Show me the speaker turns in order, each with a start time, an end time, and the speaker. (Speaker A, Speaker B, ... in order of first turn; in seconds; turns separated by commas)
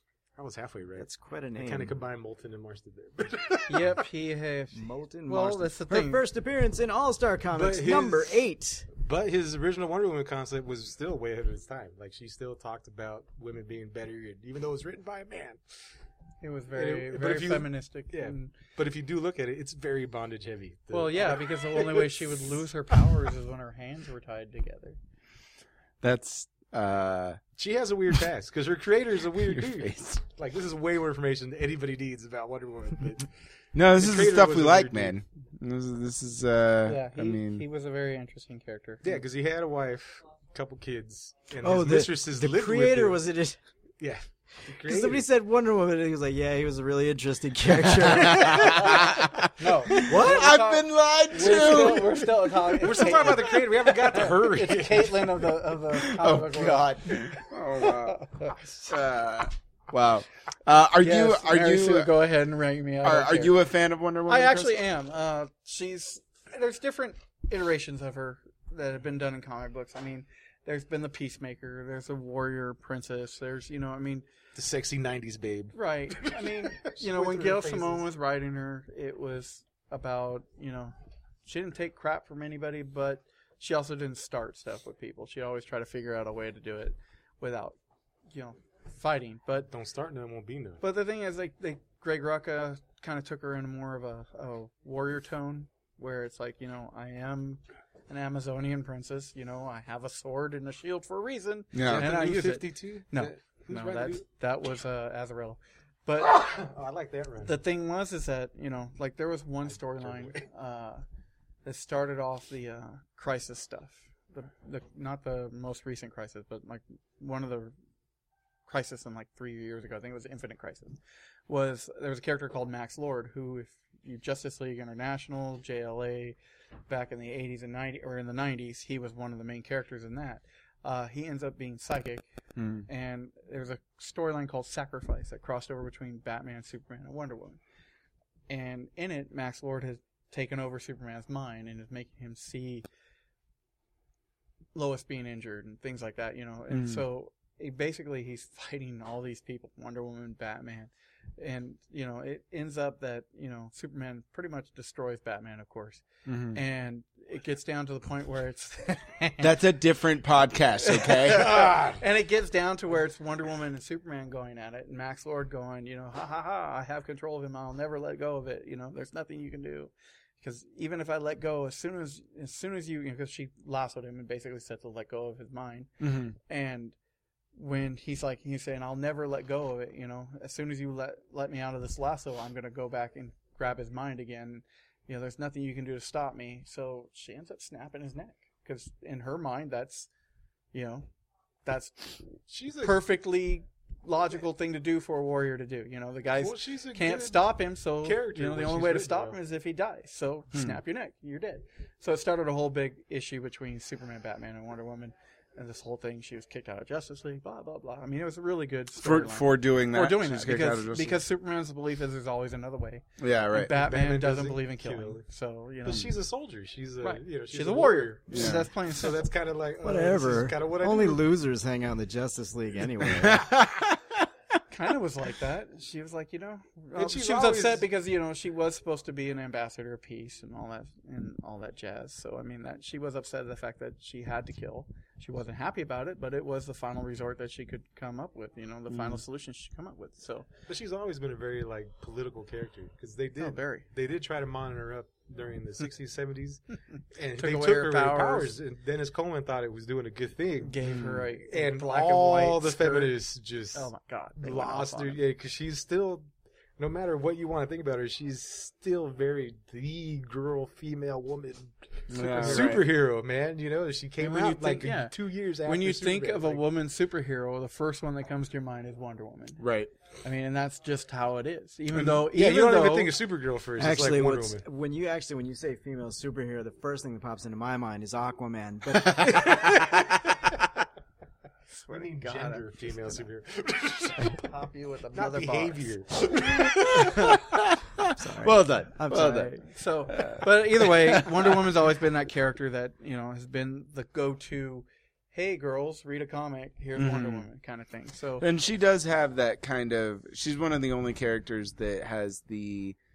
Speaker A: 0.3-4.0, Speaker B: 1.0-2.0, Speaker C: 3.7-6.2, Speaker B: 4.7-8.9, Speaker A: 7.5-8.3, Speaker A: 8.9-15.6, Speaker C: 16.4-18.5, Speaker A: 16.7-22.4, Speaker C: 20.9-25.0, Speaker D: 26.0-27.4, Speaker A: 27.6-33.3, Speaker D: 29.4-30.2, Speaker D: 33.7-37.6, Speaker A: 34.0-35.1, Speaker C: 36.9-39.1, Speaker A: 39.0-43.2, Speaker B: 41.6-43.6, Speaker A: 44.0-45.2, Speaker B: 44.8-49.1, Speaker D: 48.0-52.3, Speaker C: 49.6-58.5, Speaker B: 49.9-50.6, Speaker A: 51.4-52.0, Speaker A: 52.8-55.4, Speaker D: 55.9-58.3, Speaker D: 58.8-62.1, Speaker C: 61.0-63.5, Speaker D: 63.0-64.8, Speaker C: 64.3-74.2, Speaker A: 74.5-78.0, Speaker C: 75.7-80.9, Speaker C: 81.4-87.8, Speaker C: 88.3-89.7, Speaker A: 89.7-90.8, Speaker C: 90.8-106.4, Speaker D: 101.7-102.1, Speaker A: 101.8-104.2, Speaker A: 106.2-107.5, Speaker C: 107.4-111.0, Speaker A: 109.9-110.4, Speaker C: 111.6-117.7, Speaker C: 118.7-126.4, Speaker C: 126.9-132.2, Speaker D: 132.6-132.9, Speaker C: 132.9-137.6, Speaker C: 138.5-142.8, Speaker C: 144.7-159.6, Speaker D: 146.7-147.0, Speaker D: 156.2-156.6, Speaker D: 159.4-161.7, Speaker C: 160.8-176.9, Speaker A: 161.3-162.0, Speaker D: 176.0-176.3, Speaker C: 177.5-190.1, Speaker C: 190.7-191.1, Speaker C: 191.6-192.3, Speaker A: 192.5-193.0, Speaker C: 192.8-216.1, Speaker A: 196.3-197.5, Speaker A: 198.0-199.4, Speaker D: 209.0-211.2, Speaker D: 213.2-213.7, Speaker A: 213.7-215.2, Speaker A: 215.8-221.2, Speaker C: 217.0-219.2, Speaker D: 218.3-218.7, Speaker B: 219.8-223.6, Speaker D: 223.1-224.0, Speaker C: 224.7-240.5, Speaker A: 226.9-227.8, Speaker D: 238.9-239.2, Speaker A: 240.7-246.6, Speaker C: 243.4-243.8, Speaker A: 247.1-250.8, Speaker C: 247.3-248.5, Speaker C: 250.6-253.2, Speaker D: 250.8-251.3, Speaker A: 251.4-266.6, Speaker C: 253.7-255.2, Speaker D: 262.1-262.9, Speaker C: 262.4-262.8, Speaker C: 264.2-269.6, Speaker D: 269.6-269.9, Speaker C: 270.2-273.2, Speaker A: 272.0-274.6, Speaker B: 273.8-279.9, Speaker D: 279.2-279.8, Speaker C: 281.8-283.2, Speaker A: 281.9-284.5, Speaker C: 284.3-285.9, Speaker A: 285.1-287.4, Speaker D: 286.6-289.5, Speaker B: 288.1-289.5, Speaker C: 289.1-298.4, Speaker D: 290.1-291.6, Speaker D: 297.0-297.4, Speaker D: 298.4-303.0